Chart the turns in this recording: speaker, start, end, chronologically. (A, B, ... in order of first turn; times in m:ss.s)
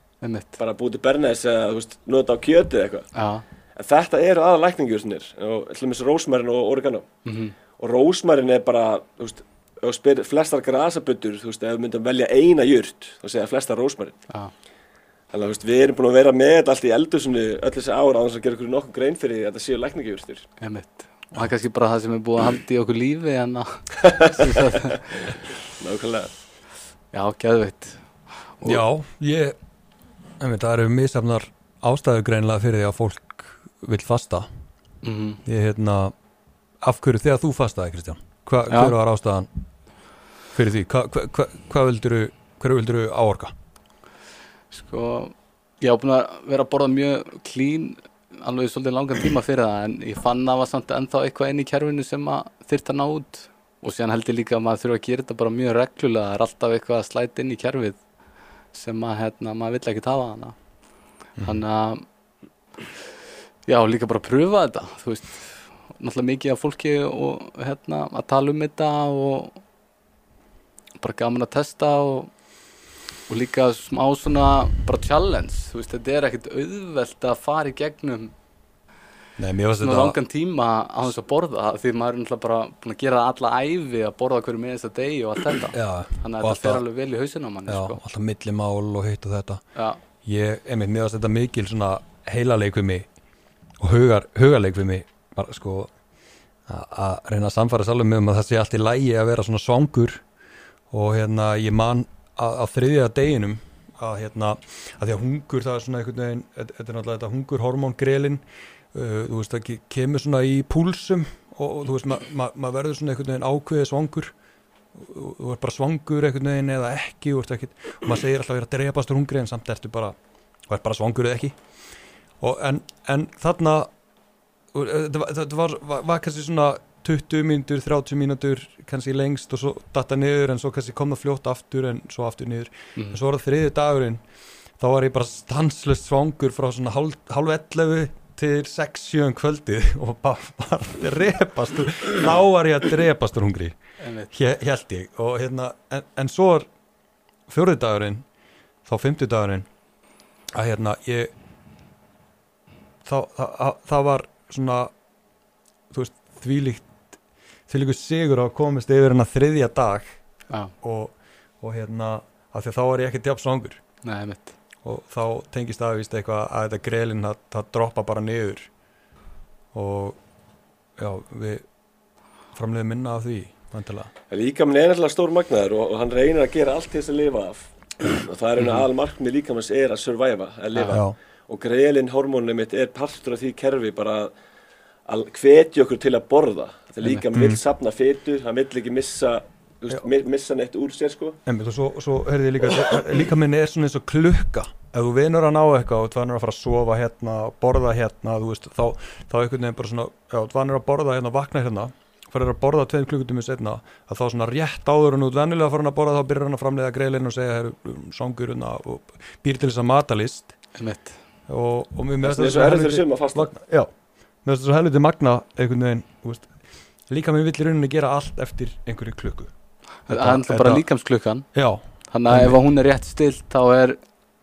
0:00.2-0:00.6 A
0:00.6-0:03.1 B
0:03.2-0:03.4 A
0:03.8-0:07.1 B
0:07.3-0:07.6 A
0:07.8-0:14.2 B
0:15.3-0:20.5 B
0:20.6-0:25.0 A
0:24.2-0:26.3 B
0:27.1-0:28.0 A
0:28.6-0:29.6 C
0:30.4-0:34.5 C
0:35.0-0:35.4 A
0:35.5-0:36.1 C
0:36.8-0:39.5 C
0:38.7-0:39.0 A
0:40.6-0:43.5 C
0:44.7-0:58.0 A
0:58.7-1:00.6 A
1:01.4-1:02.0 A
1:03.7-1:09.6 A
1:11.0-1:12.3 A
1:13.3-1:18.3 A
1:19.4-1:20.2 C
1:19.8-1:28.0 A
1:25.7-1:26.8 C
1:27.7-1:29.6 C
1:29.8-1:30.0 A
1:30.2-1:33.1 C
1:33.8-1:35.9 C
1:36.7-1:40.2 C
1:40.9-1:48.4 C
1:48.9-1:54.3 C
1:55.0-2:00.2 C
2:00.7-2:01.6 C
2:02.4-2:03.9 C
2:04.7-2:14.2 C
2:13.0-2:13.2 A
2:14.8-2:23.8 C
2:24.0-2:24.3 A
2:24.3-2:26.7 C
2:27.5-2:28.2 C
2:28.8-2:29.7 C
2:30.5-2:31.3 C
2:33.0-2:34.9 C
2:35.9-2:36.9 C
2:37.7-2:40.2 C
2:40.8-2:43.8 C
2:44.0-2:44.6 A
2:44.8-2:48.7 C
2:49.7-2:50.2 C
2:51.0-2:51.6 C
2:52.6-2:54.1 C
2:54.3-3:04.3 B
3:05.1-3:11.4 B
3:07.3-3:07.6 C
3:11.5-3:30.5 C
3:30.8-3:31.2 A
3:31.5-3:33.9 C
3:32.2-3:33.5 B
3:34.4-3:36.5 C
3:37.1-3:39.5 C
3:40.1-3:41.5 A
3:40.1-3:40.8 C
3:41.5-3:42.6 C
3:42.1-3:44.0 A